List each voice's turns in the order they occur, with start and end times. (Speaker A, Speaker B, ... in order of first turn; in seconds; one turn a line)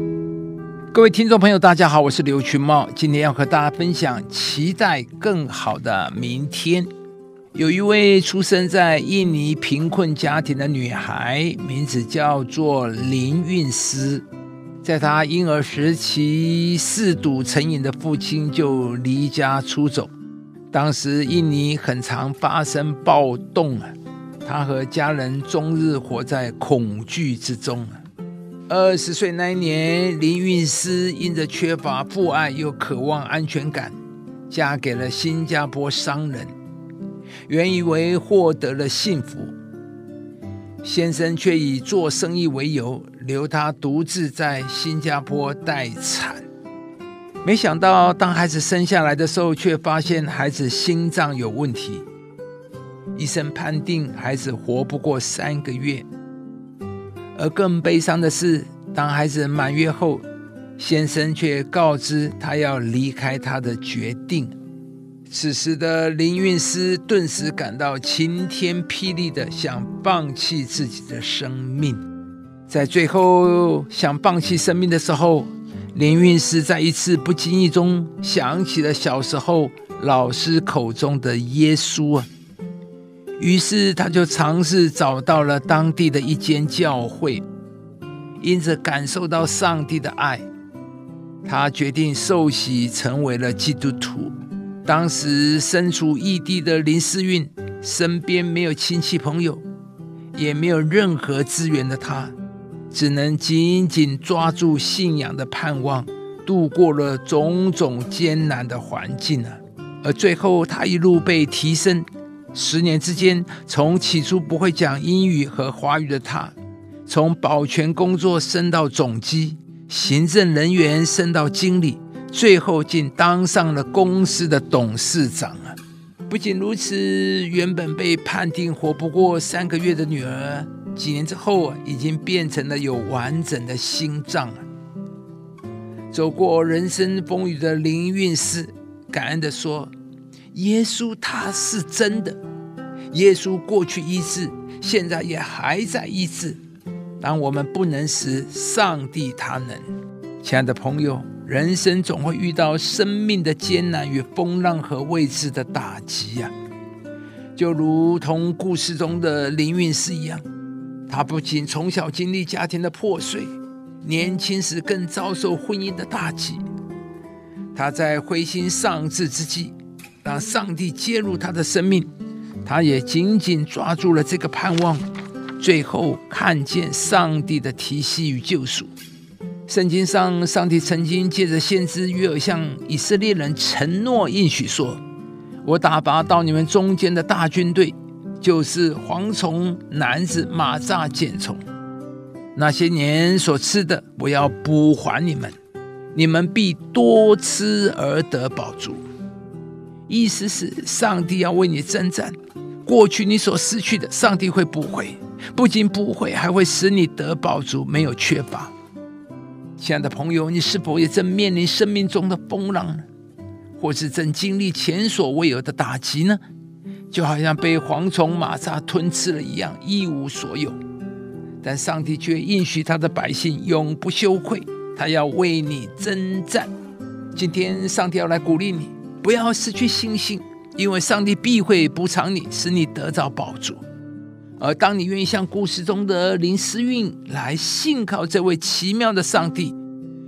Speaker A: 0.9-6.9
Speaker A: 7.5-14.2
Speaker A: 14.8-20.1
Speaker A: 20.7-23.9
Speaker A: 24.4-28.0
Speaker A: 28.7-33.9
Speaker A: 34.5-36.5
Speaker A: 37.5-39.5
Speaker A: 40.8-46.4
Speaker A: 47.4-52.0
Speaker A: 53.1-56.0
Speaker A: 57.3-60.2
Speaker A: 60.8-64.5
Speaker A: 65.3-72.0
Speaker A: 72.7-82.3
Speaker A: 83.4-87.4
Speaker A: 88.4-90.5
Speaker A: 91.4-94.3
Speaker A: 94.8-99.6
Speaker A: 100.3-102.3
Speaker A: 102.9-116.5
Speaker A: 117.0-125.8
Speaker A: 126.3-134.6
Speaker A: 136.1-139.9
Speaker A: 140.5-142.4
Speaker A: 143.1-146.6
Speaker A: 147.2-149.8
Speaker A: 150.4-156.5
Speaker A: 157.6-160.4
Speaker A: 161.1-166.6
Speaker A: 167.7-172.1
Speaker A: 172.6-175.0
Speaker A: 175.6-178.9
Speaker A: 179.7-185.0
Speaker A: 185.6-191.6
Speaker A: 192.5-195.5
Speaker A: 196.1-199.0
Speaker A: 200.1-208.7
Speaker A: 209.8-213.0
Speaker A: 213.8-216.4
Speaker A: 217.1-220.8
Speaker A: 221.6-226.7
Speaker A: 227.3-233.8
Speaker A: 234.6-239.8